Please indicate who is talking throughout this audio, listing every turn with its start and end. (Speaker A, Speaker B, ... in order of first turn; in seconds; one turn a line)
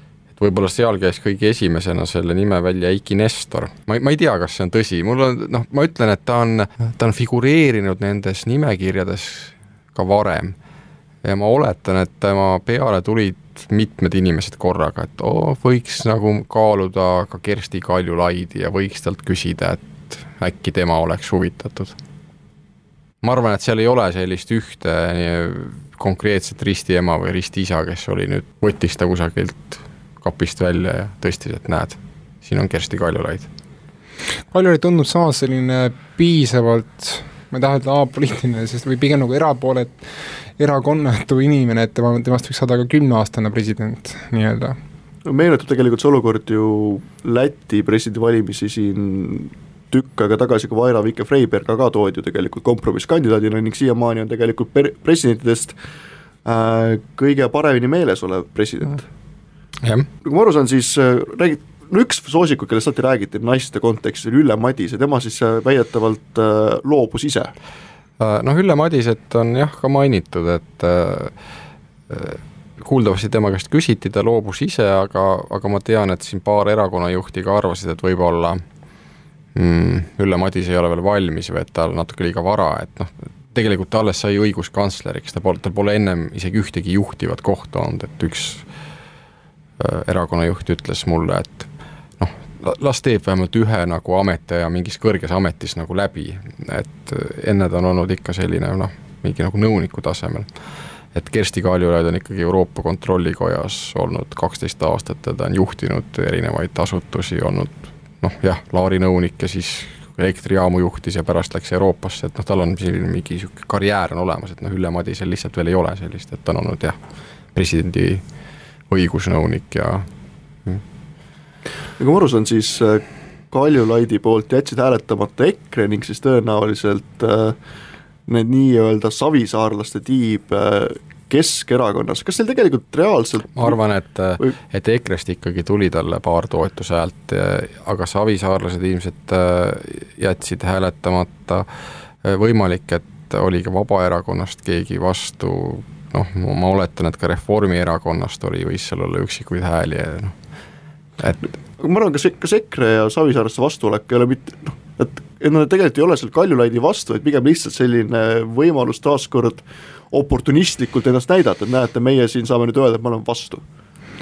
Speaker A: 0.3-10.6
Speaker A: 11.2-21.9
Speaker A: 23.2-33.5
Speaker B: 34.5-40.0
Speaker B: 40.6-44.8
Speaker C: 45.2-55.7
Speaker C: 56.4-59.0
Speaker C: 60.2-67.5
Speaker A: 68.2-71.3
Speaker A: 72.1-78.6
Speaker A: 79.5-88.6
Speaker A: 89.8-91.7
Speaker A: 92.2-100.5
Speaker A: 101.1-117.0
Speaker A: 117.5-118.2
Speaker A: 118.9-120.0
Speaker C: 122.0-127.5
Speaker C: 128.3-133.8
Speaker A: 133.5-141.7
Speaker A: 142.2-150.3
Speaker A: 151.2-151.5
Speaker C: 151.8-163.6